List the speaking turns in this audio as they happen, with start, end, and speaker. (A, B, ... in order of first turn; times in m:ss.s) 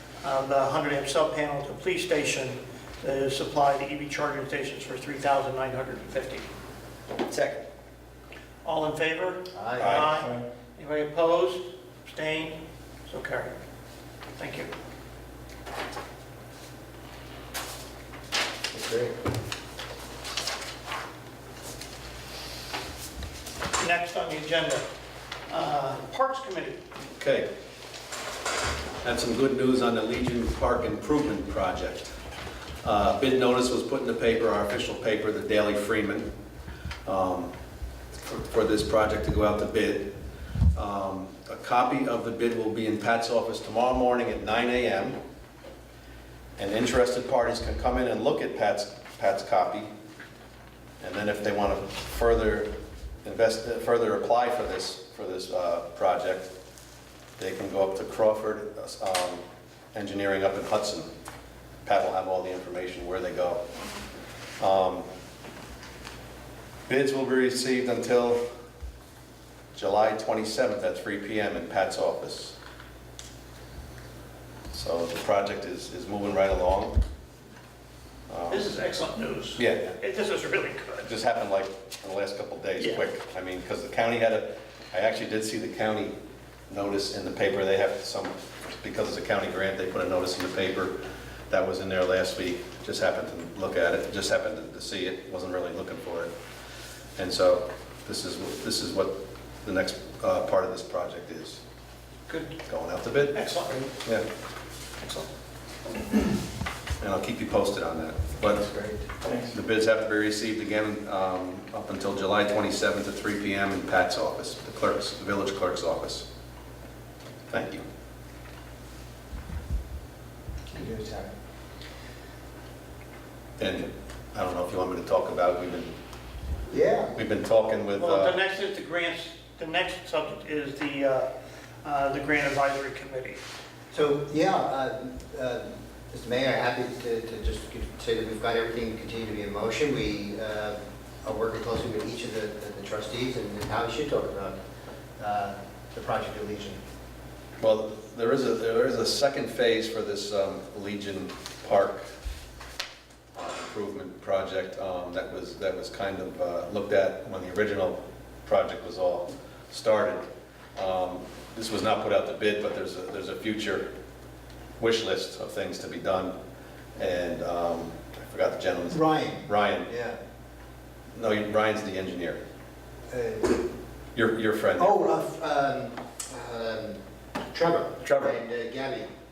0:00.2-0:06.5 A
0:08.6-0:13.6 A
0:09.5-0:10.0 B
0:09.8-0:10.1 C
0:14.4-0:14.7 A
0:18.7-0:19.1 B
0:23.8-0:24.8 A
0:25.5-0:26.8 A
0:27.2-0:27.5 C
0:29.0-0:32.2 C
0:32.8-0:36.3 C
0:37.0-0:37.5 C
0:38.2-0:40.1 C
0:40.7-0:45.2 C
0:46.6-0:49.9 C
0:51.0-0:52.7 C
0:53.2-0:56.5 C
0:57.4-1:01.1 C
1:01.8-1:03.6 C
1:04.6-1:05.1 C
1:06.9-1:08.4 C
1:09.7-1:12.6 C
1:14.7-1:17.0 C
1:18.3-1:18.7 C
1:18.5-1:21.1 A
1:19.6-1:20.0 C
1:21.0-1:26.2 C
1:22.8-1:23.0 A
1:26.7-1:31.0 C
1:31.5-1:36.3 C
1:37.2-1:41.6 C
1:42.3-1:42.6 A
1:42.7-1:43.4 C
1:43.3-1:44.0 A
1:45.0-1:45.3 A
1:47.0-1:48.6 C
1:48.5-1:49.1 B
1:49.5-1:56.2 C
1:57.5-1:57.8 C
2:00.7-2:01.3 B
2:03.6-2:05.9 C
2:06.7-2:07.2 B
2:07.1-2:08.4 C
2:08.0-2:11.3 A
2:11.8-2:13.4 A
2:13.9-2:24.6 B
2:25.2-2:26.8 B
2:27.6-2:32.1 C
2:33.3-2:40.2 C
2:40.8-2:43.9 C
2:44.8-2:46.3 C
2:47.0-2:49.9 C
2:48.9-2:50.2 B
2:51.1-2:52.4 C
2:53.1-2:53.6 B
2:54.1-2:55.1 C
2:54.8-2:57.0 B
2:57.5-2:59.1 B
2:58.0-2:58.3 C